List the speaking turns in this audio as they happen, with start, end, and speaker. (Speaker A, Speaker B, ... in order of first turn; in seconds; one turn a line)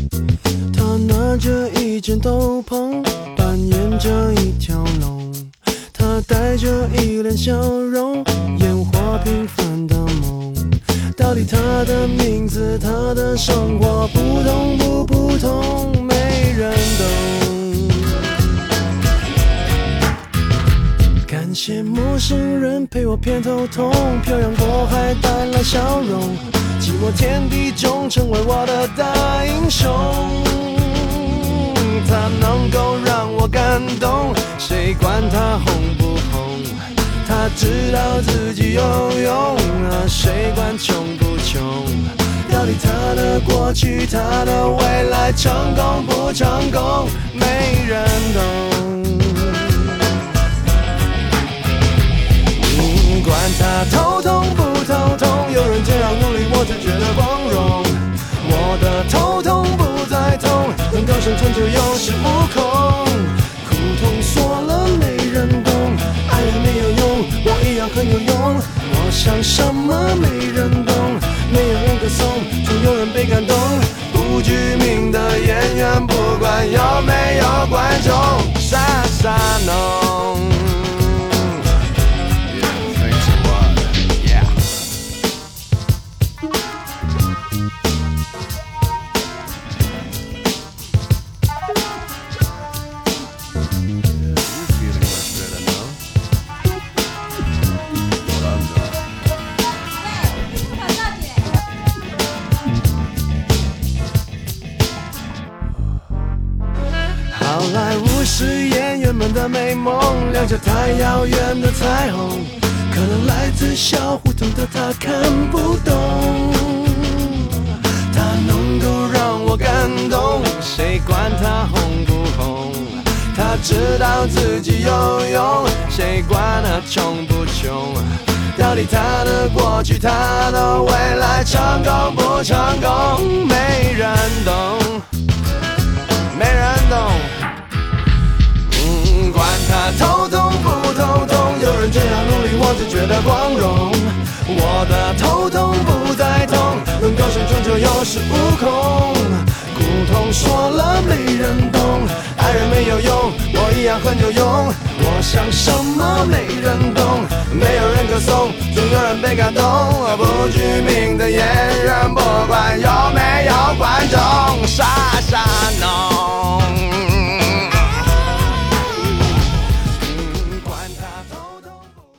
Speaker A: 0.7-18.2
Speaker A: 21.2-50.1
Speaker A: 52.5-81.6
Speaker A: 82.5-84.7
Speaker A: 94.2-96.0
Speaker A: 98.3-99.0
Speaker A: 107.3-135.1
Speaker A: 136.3-137.4
Speaker A: 138.6-168.1
Speaker A: 169.9-171.9